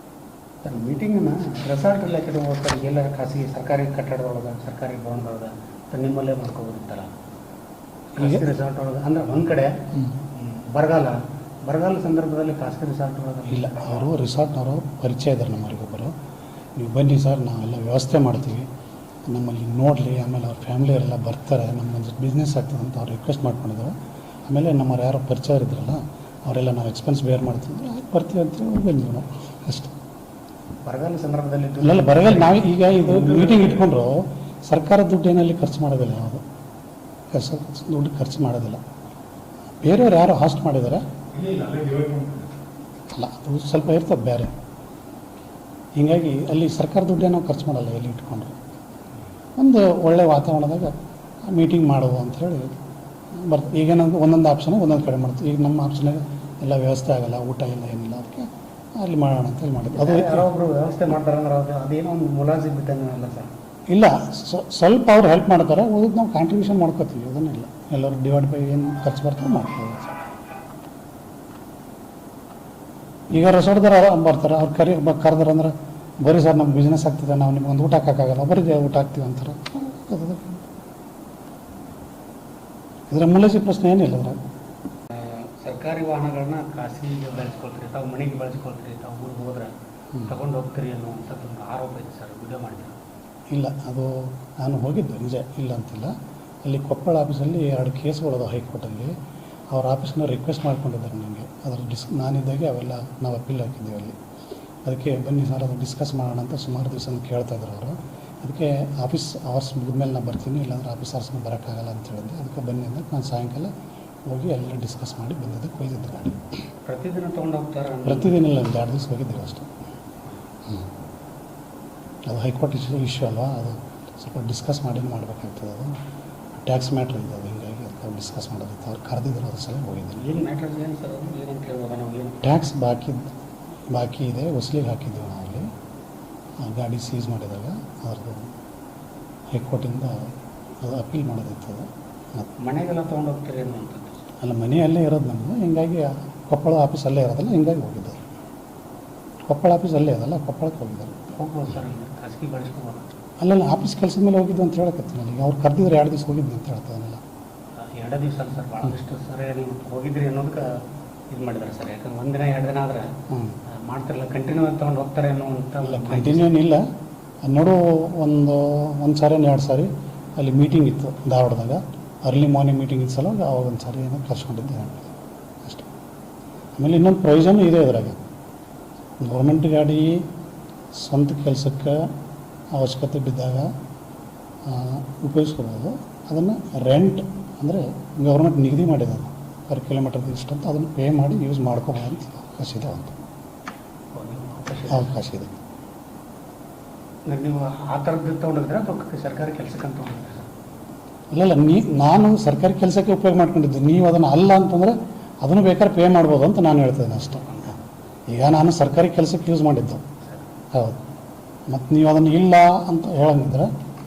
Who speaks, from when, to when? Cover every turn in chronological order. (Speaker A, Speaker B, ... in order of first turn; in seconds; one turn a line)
Speaker A: 0.6-7.1
Speaker A: 8.2-9.7
Speaker B: 8.2-8.4
Speaker A: 10.3-14.0
Speaker B: 13.5-16.1
Speaker B: 16.8-18.7
Speaker B: 19.3-23.9
Speaker B: 24.5-29.9
Speaker A: 30.9-33.8
Speaker B: 31.8-36.4
Speaker B: 37.3-38.8
Speaker B: 39.8-41.0
Speaker A: 41.4-42.4
Speaker B: 43.1-44.5
Speaker B: 46.0-48.5
Speaker B: 49.6-50.9
Speaker B: 51.5-52.7
Speaker B: 53.4-60.5
Speaker A: 60.0-63.5
Speaker B: 63.9-70.2
Speaker B: 73.3-80.6
Speaker B: 83.1-84.4
Speaker A: 85.1-89.7
Speaker B: 90.1-90.4
Speaker A: 90.3-92.9
Speaker B: 93.5-99.1
Speaker B: 99.7-104.2
Speaker B: 104.8-113.7
Speaker B: 114.3-116.4
Speaker A: 116.9-118.4
Speaker B: 118.0-119.7
Speaker B: 122.2-126.0
Speaker B: 126.6-130.3
Speaker A: 130.2-132.5
Speaker B: 132.4-133.3
Speaker B: 133.9-135.7
Speaker B: 136.6-138.5
Speaker B: 139.5-140.3
Speaker B: 140.8-142.5
Speaker A: 142.6-144.2
Speaker B: 144.4-148.2
Speaker B: 149.5-151.3
Speaker A: 151.3-153.1
Speaker B: 153.4-157.2
Speaker A: 158.0-160.7
Speaker A: 161.3-163.1
Speaker B: 163.3-163.6
Speaker A: 163.8-166.5
Speaker B: 165.8-166.8
Speaker B: 167.4-175.1
Speaker B: 175.6-175.9
Speaker B: 176.8-178.2
Speaker B: 179.2-180.2
Speaker B: 180.9-182.1
Speaker B: 182.7-183.7
Speaker B: 184.7-193.2
Speaker A: 194.1-195.1
Speaker B: 194.9-195.5
Speaker A: 197.3-200.5
Speaker B: 201.3-207.7
Speaker B: 208.3-210.0
Speaker B: 210.7-211.0
Speaker B: 211.7-213.7